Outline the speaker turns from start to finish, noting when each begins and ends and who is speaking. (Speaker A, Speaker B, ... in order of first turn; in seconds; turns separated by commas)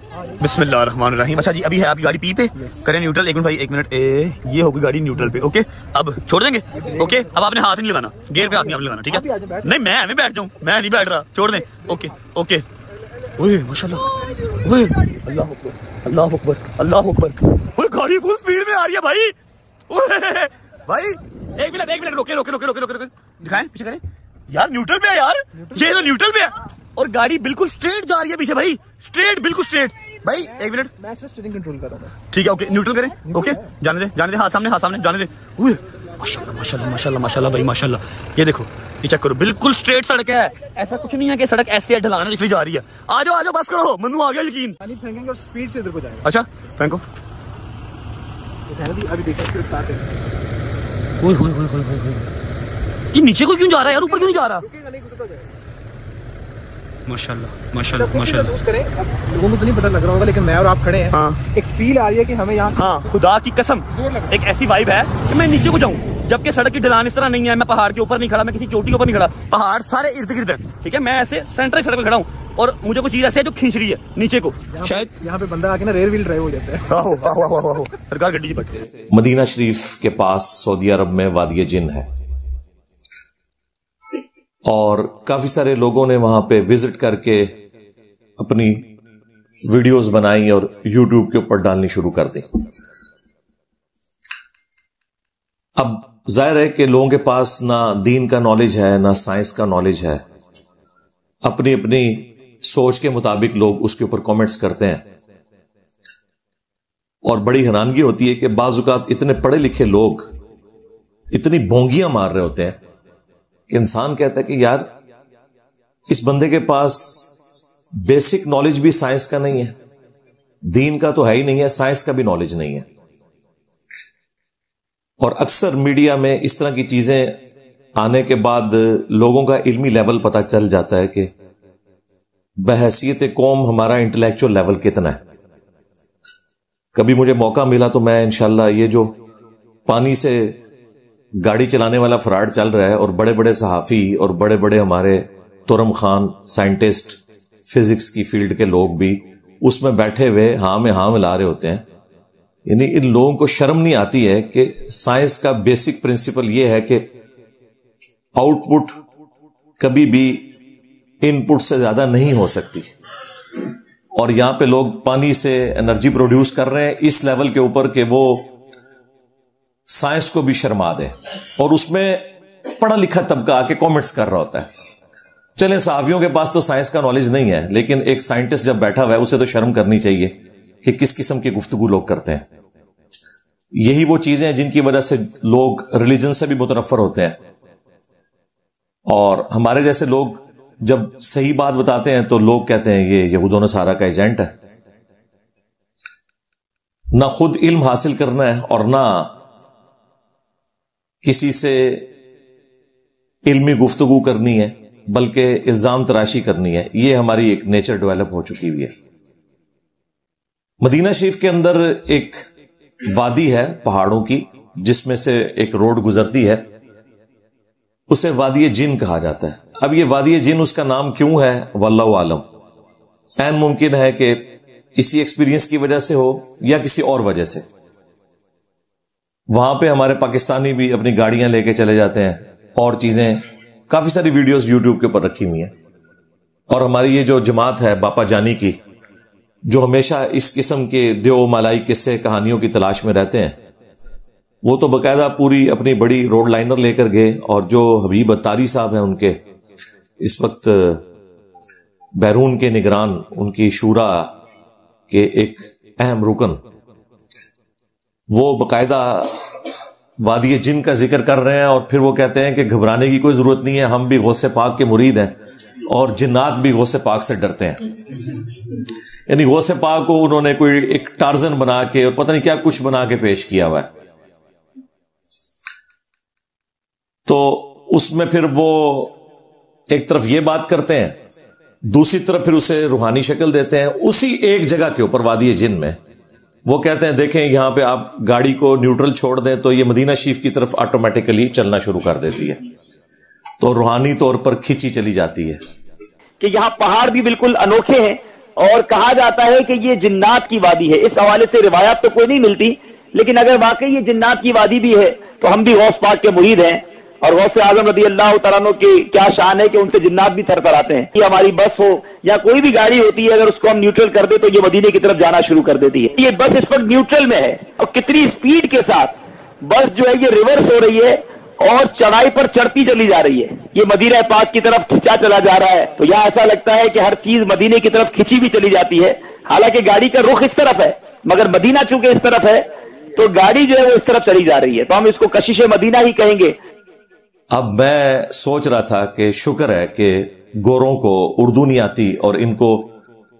Speaker A: 0.4-12.6, Speaker B: 6.8-7.2, Speaker B: 8.3-9.7, Speaker A: 13.4-19.3, Speaker A: 19.9-30.9, Speaker B: 31.0-32.2, Speaker A: 32.3-44.8, Speaker B: 33.3-33.6, Speaker B: 44.8-46.2, Speaker A: 46.2-47.0, Speaker B: 48.7-50.1, Speaker A: 51.2-52.3, Speaker A: 53.1-54.6, Speaker B: 53.9-55.4, Speaker A: 57.1-58.5, Speaker B: 57.9-63.0, Speaker A: 61.1-61.4, Speaker A: 62.8-75.1, Speaker B: 74.7-76.9, Speaker A: 76.9-78.7, Speaker C: 79.1-82.1, Speaker C: 84.6-87.6, Speaker C: 88.4-88.9, Speaker C: 89.6-92.6, Speaker C: 95.8-100.2, Speaker C: 101.4-105.0, Speaker C: 107.2-110.3, Speaker C: 111.3-112.8, Speaker C: 113.7-114.9, Speaker C: 116.1-117.3, Speaker C: 117.9-119.8, Speaker C: 120.7-122.9, Speaker C: 125.2-127.4, Speaker C: 128.0-131.3, Speaker C: 132.6-135.2, Speaker C: 136.9-139.2, Speaker C: 139.8-140.6, Speaker C: 141.3-147.2, Speaker C: 147.7-151.8, Speaker C: 152.7-157.1, Speaker C: 158.3-159.0, Speaker C: 159.8-160.5, Speaker C: 161.2-162.9, Speaker C: 164.1-168.5, Speaker C: 169.9-174.7, Speaker C: 175.6-182.4, Speaker C: 183.7-187.4, Speaker C: 189.1-194.5, Speaker C: 197.1-199.3, Speaker C: 201.2-202.1, Speaker C: 203.4-208.9, Speaker C: 210.8-212.4, Speaker C: 213.0-216.7, Speaker C: 218.1-222.4, Speaker C: 223.4-227.7, Speaker C: 229.5-235.7, Speaker C: 236.7-238.8, Speaker C: 239.7-243.6, Speaker C: 244.6-249.4, Speaker C: 250.2-251.0, Speaker C: 252.2-254.3, Speaker C: 255.1-256.6, Speaker C: 258.3-259.6, Speaker C: 260.2-265.4, Speaker C: 265.9-267.9, Speaker C: 269.3-273.9, Speaker C: 277.2-279.1, Speaker C: 279.9-281.2, Speaker C: 281.8-286.0, Speaker C: 286.6-292.6, Speaker C: 293.6-295.6, Speaker D: 296.4-336.6, Speaker C: 337.5-342.9